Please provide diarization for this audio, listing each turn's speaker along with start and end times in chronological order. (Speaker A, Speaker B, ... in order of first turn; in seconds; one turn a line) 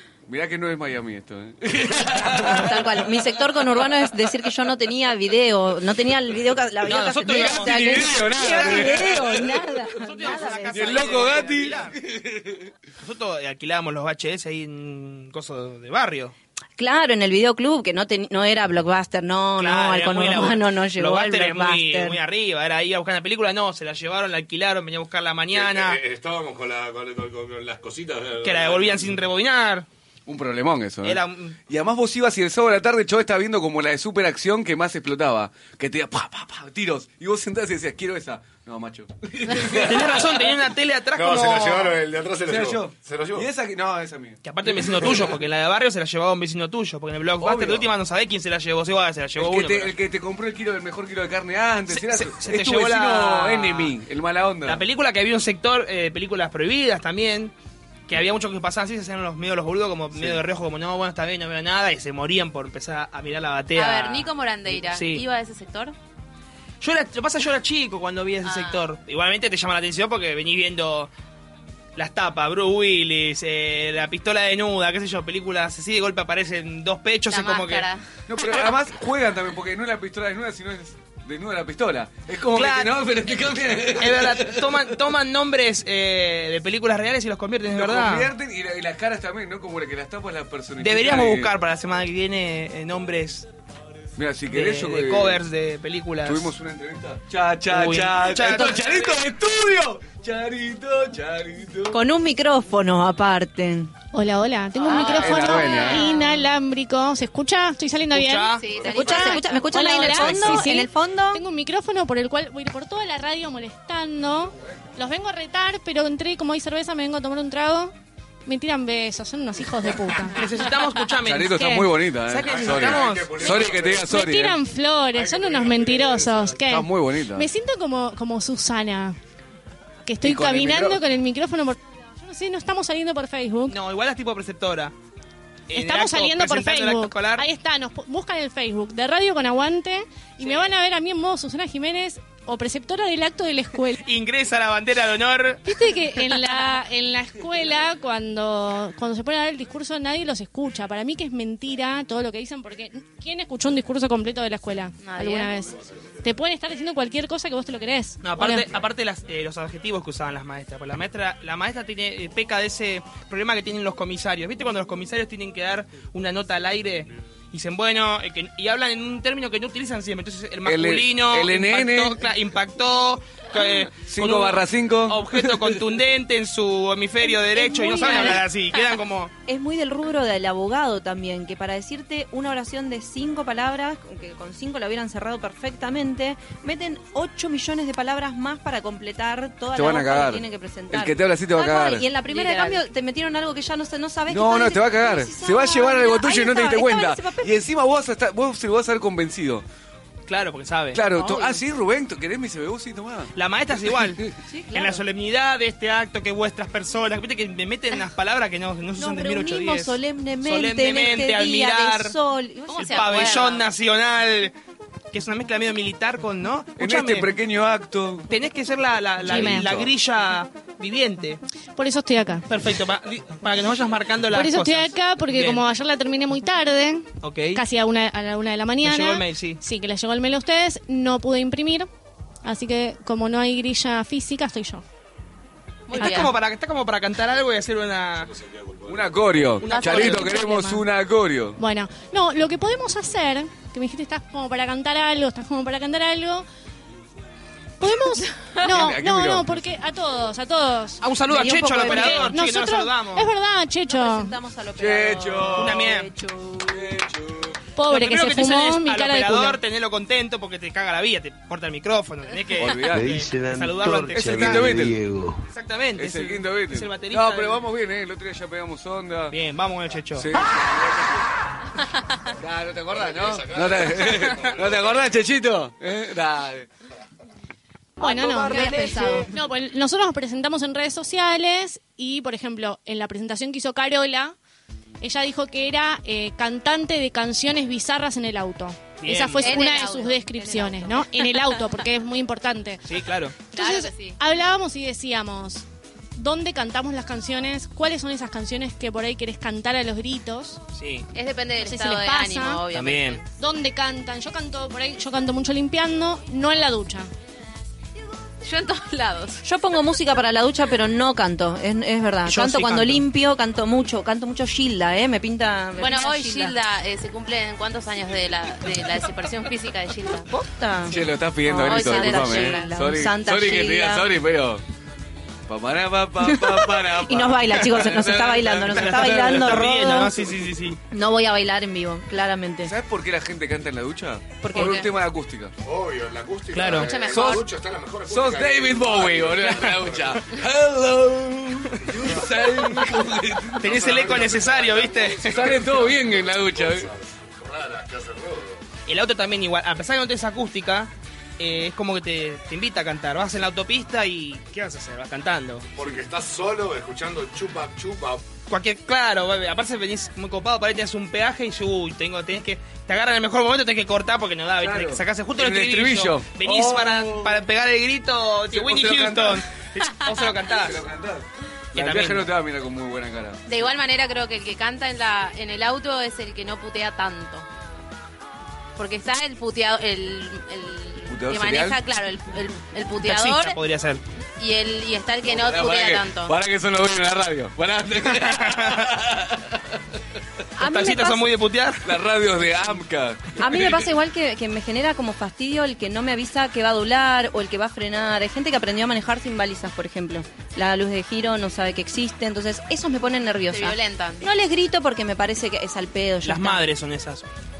Speaker A: 0.3-3.0
Speaker B: 2.1-11.1
Speaker C: 6.8-9.2
Speaker A: 7.2-9.7
Speaker C: 10.0-12.0
Speaker A: 10.6-12.7
Speaker C: 13.0-16.3
Speaker B: 16.8-22.2
Speaker C: 19.6-26.0
Speaker D: 25.5-29.2
Speaker C: 28.4-29.9
Speaker A: 30.2-40.4
Speaker C: 31.0-31.6
Speaker C: 39.7-42.0
Speaker D: 41.1-43.5
Speaker A: 42.4-45.2
Speaker C: 44.4-49.9
Speaker A: 47.4-47.9
Speaker A: 49.4-54.8
Speaker C: 51.9-53.9
Speaker C: 54.6-57.5
Speaker C: 58.1-65.2
Speaker E: 63.7-65.9
Speaker C: 66.8-71.1
Speaker E: 68.4-68.9
Speaker C: 72.0-77.9
Speaker E: 77.3-78.0
Speaker A: 78.3-84.8
Speaker C: 82.5-83.0
Speaker C: 83.9-88.3
Speaker A: 87.7-91.5
Speaker C: 90.8-93.5
Speaker A: 94.2-95.4
Speaker C: 94.5-96.5
Speaker A: 96.2-102.0
Speaker C: 97.7-99.1
Speaker B: 101.9-103.9
Speaker F: 104.1-117.9
Speaker C: 104.9-105.7
Speaker A: 105.0-106.1
Speaker E: 105.5-106.0
Speaker C: 108.1-108.7
Speaker E: 108.6-109.7
Speaker D: 108.7-109.2
Speaker B: 108.8-111.4
Speaker C: 110.0-110.5
Speaker F: 118.5-120.5
Speaker C: 120.3-123.6
Speaker A: 121.2-124.6
Speaker F: 121.6-121.8
Speaker D: 122.5-124.1
Speaker F: 124.1-129.2
Speaker D: 125.1-126.6
Speaker A: 126.6-127.5
Speaker F: 130.1-133.8
Speaker A: 130.2-131.0
Speaker C: 133.7-134.9
Speaker C: 135.7-137.4
Speaker F: 135.7-144.0
Speaker C: 140.4-140.7
Speaker C: 144.0-145.6
Speaker F: 145.6-158.7
Speaker E: 155.0-155.5
Speaker C: 158.2-179.3
Speaker A: 170.6-172.2
Speaker A: 173.9-175.8
Speaker B: 177.4-178.4
Speaker B: 179.4-197.5
Speaker A: 189.7-192.1
Speaker E: 192.3-192.8
Speaker A: 194.3-199.6
Speaker C: 200.3-201.0
Speaker A: 200.9-203.3
Speaker B: 201.1-201.6
Speaker C: 203.3-212.1
Speaker B: 204.5-205.0
Speaker B: 209.0-213.3
Speaker E: 212.7-213.7
Speaker C: 212.8-214.5
Speaker C: 215.1-217.3
Speaker A: 216.8-218.3
Speaker C: 218.3-221.4
Speaker A: 219.2-219.9
Speaker F: 219.3-219.7
Speaker F: 221.8-222.4
Speaker C: 222.5-225.6
Speaker F: 224.3-231.9
Speaker C: 227.2-227.6
Speaker C: 228.8-229.6
Speaker F: 232.4-234.8
Speaker E: 235.9-236.3
Speaker C: 235.9-238.3
Speaker F: 236.0-236.2
Speaker D: 238.2-239.6
Speaker A: 238.8-241.6
Speaker C: 239.6-240.4
Speaker E: 239.6-240.2
Speaker F: 240.2-240.8
Speaker F: 241.6-246.4
Speaker F: 247.8-251.0
Speaker A: 248.6-249.6
Speaker C: 251.0-253.3
Speaker B: 251.3-252.3
Speaker F: 251.8-254.3
Speaker B: 253.9-256.9
Speaker A: 254.8-255.8
Speaker C: 255.6-256.1
Speaker A: 256.7-257.6
Speaker F: 257.8-259.6
Speaker C: 257.9-264.8
Speaker A: 262.6-263.1
Speaker A: 264.2-265.0
Speaker C: 265.5-267.6
Speaker A: 266.0-269.4
Speaker C: 269.3-270.3
Speaker A: 270.1-270.6
Speaker A: 272.4-276.7
Speaker D: 272.9-275.1
Speaker F: 278.0-284.4
Speaker B: 278.1-279.2
Speaker E: 278.5-279.0
Speaker F: 285.0-292.8
Speaker C: 289.0-289.7
Speaker E: 289.4-291.3
Speaker C: 292.9-293.4
Speaker F: 293.4-295.6
Speaker E: 293.5-294.2
Speaker F: 296.1-300.6
Speaker C: 300.8-301.1
Speaker E: 301.1-303.2
Speaker F: 301.6-302.6
Speaker C: 302.7-303.2
Speaker F: 303.4-307.1
Speaker E: 308.4-309.4
Speaker B: 309.4-316.6
Speaker C: 312.2-313.0
Speaker E: 315.8-320.3
Speaker B: 320.3-324.1
Speaker A: 320.9-324.6
Speaker E: 321.6-322.7
Speaker A: 325.5-329.6
Speaker B: 326.2-330.2
Speaker C: 328.7-330.8
Speaker B: 330.9-332.7
Speaker A: 332.6-335.5
Speaker B: 334.4-334.9
Speaker E: 334.6-334.8
Speaker D: 335.6-340.3
Speaker C: 336.5-337.0
Speaker E: 336.8-337.4
Speaker A: 337.0-337.4
Speaker A: 338.1-344.0
Speaker D: 341.9-342.3
Speaker C: 343.6-345.4
Speaker D: 343.6-348.6
Speaker A: 345.2-346.9
Speaker C: 348.9-355.7
Speaker D: 355.8-358.2
Speaker C: 358.5-370.8
Speaker A: 364.6-367.4
Speaker A: 368.5-369.4
Speaker A: 370.5-373.4
Speaker C: 371.7-372.3
Speaker E: 373.5-377.4
Speaker E: 378.8-383.6
Speaker A: 381.1-381.8
Speaker C: 383.0-384.0
Speaker E: 384.4-386.3
Speaker A: 385.2-389.7
Speaker C: 388.2-388.8
Speaker C: 390.6-391.8
Speaker B: 390.6-391.2
Speaker A: 391.8-393.9
Speaker B: 393.4-406.6
Speaker E: 403.5-404.2
Speaker C: 406.2-407.2